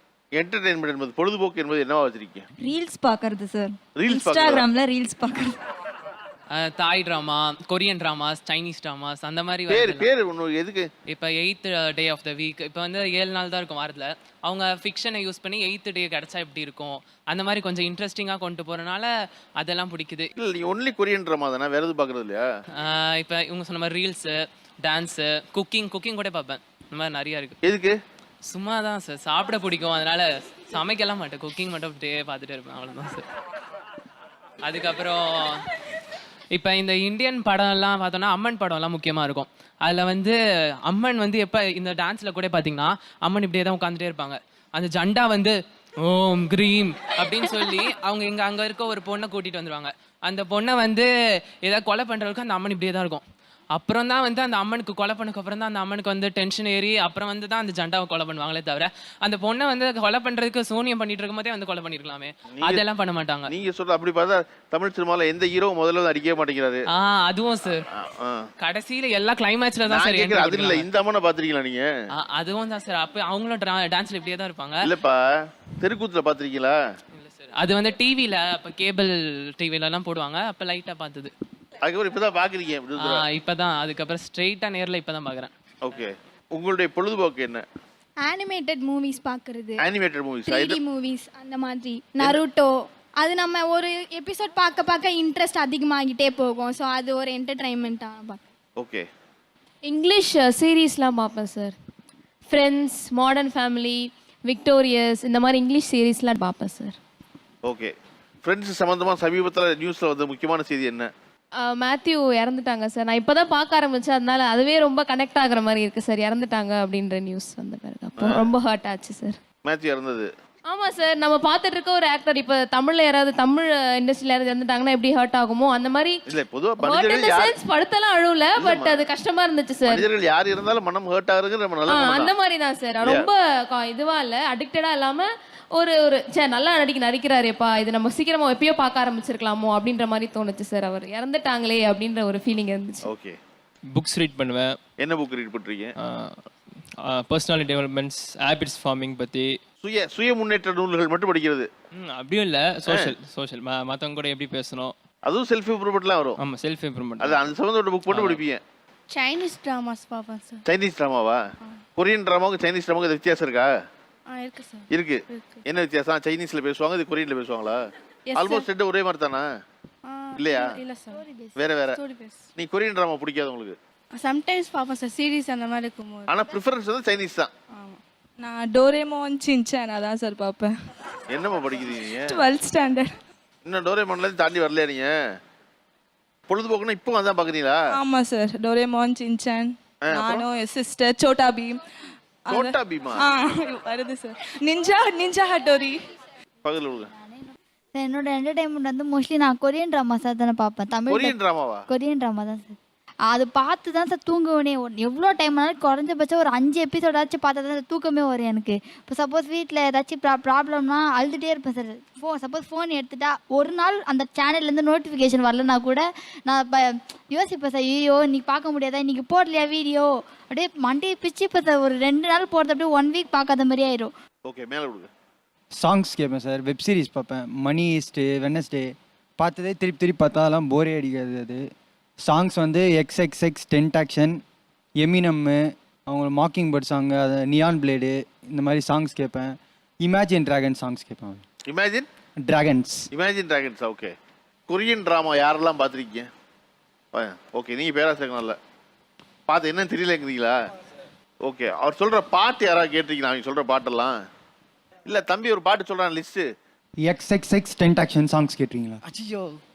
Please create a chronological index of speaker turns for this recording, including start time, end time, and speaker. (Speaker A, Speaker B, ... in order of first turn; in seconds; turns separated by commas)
Speaker A: 0.4-2.5, Speaker B: 2.6-5.5, Speaker A: 4.0-4.7, Speaker C: 6.5-10.1, Speaker A: 9.7-10.9, Speaker C: 11.1-19.1, Speaker C: 19.6-20.3, Speaker A: 20.4-22.5, Speaker C: 22.8-27.6, Speaker A: 27.6-27.9, Speaker C: 28.5-33.2, Speaker C: 34.6-35.6, Speaker C: 36.5-40.3, Speaker C: 40.9-51.1, Speaker C: 51.6-53.2, Speaker C: 53.7-63.5, Speaker A: 63.5-66.8, Speaker C: 67.0-67.8, Speaker A: 68.0-68.5, Speaker C: 68.6-70.9, Speaker A: 69.9-71.9, Speaker C: 72.2-74.8, Speaker A: 74.8-75.2, Speaker A: 75.8-76.8, Speaker C: 77.2-81.3, Speaker A: 81.8-83.2, Speaker C: 83.0-85.5, Speaker A: 85.8-87.6, Speaker D: 88.2-89.8, Speaker A: 89.8-90.8, Speaker D: 90.5-98.4, Speaker A: 98.8-99.1, Speaker E: 99.9-101.8, Speaker E: 102.5-107.0, Speaker A: 107.7-107.9, Speaker A: 108.4-111.1, Speaker E: 111.7-119.4, Speaker A: 118.2-118.5, Speaker A: 119.7-120.3, Speaker E: 120.7-126.2, Speaker A: 126.3-127.6, Speaker E: 126.8-130.1, Speaker A: 128.6-129.1, Speaker A: 129.9-132.3, Speaker E: 131.9-143.1, Speaker A: 133.0-133.3, Speaker A: 143.1-143.4, Speaker F: 143.9-144.8, Speaker A: 145.0-145.9, Speaker F: 146.0-146.5, Speaker F: 147.0-149.6, Speaker A: 149.8-151.7, Speaker F: 152.0-154.9, Speaker A: 155.2-156.4, Speaker F: 156.4-157.5, Speaker A: 157.2-158.6, Speaker F: 158.1-158.4, Speaker A: 160.7-161.4, Speaker A: 162.0-163.7, Speaker A: 164.9-167.8, Speaker A: 168.3-169.5, Speaker A: 170.4-170.8, Speaker A: 171.6-172.0, Speaker A: 172.6-173.8, Speaker G: 175.6-176.2, Speaker A: 176.3-177.5, Speaker G: 177.8-180.7, Speaker A: 181.3-182.4, Speaker G: 182.3-183.1, Speaker A: 183.7-185.1, Speaker A: 186.5-187.8, Speaker G: 188.0-191.8, Speaker A: 190.0-190.5, Speaker A: 192.5-193.2, Speaker G: 193.3-195.9, Speaker A: 196.6-197.1, Speaker H: 197.9-201.4, Speaker A: 201.1-201.9, Speaker H: 201.9-202.8, Speaker H: 203.3-224.1, Speaker A: 224.5-225.1, Speaker I: 225.8-231.6, Speaker I: 232.2-234.4, Speaker I: 235.0-241.4, Speaker A: 241.7-242.1, Speaker I: 242.5-243.1, Speaker A: 243.1-244.1, Speaker A: 244.7-246.3, Speaker A: 247.1-248.6, Speaker A: 249.5-250.6, Speaker A: 251.4-254.2, Speaker A: 255.1-256.5, Speaker I: 257.0-259.0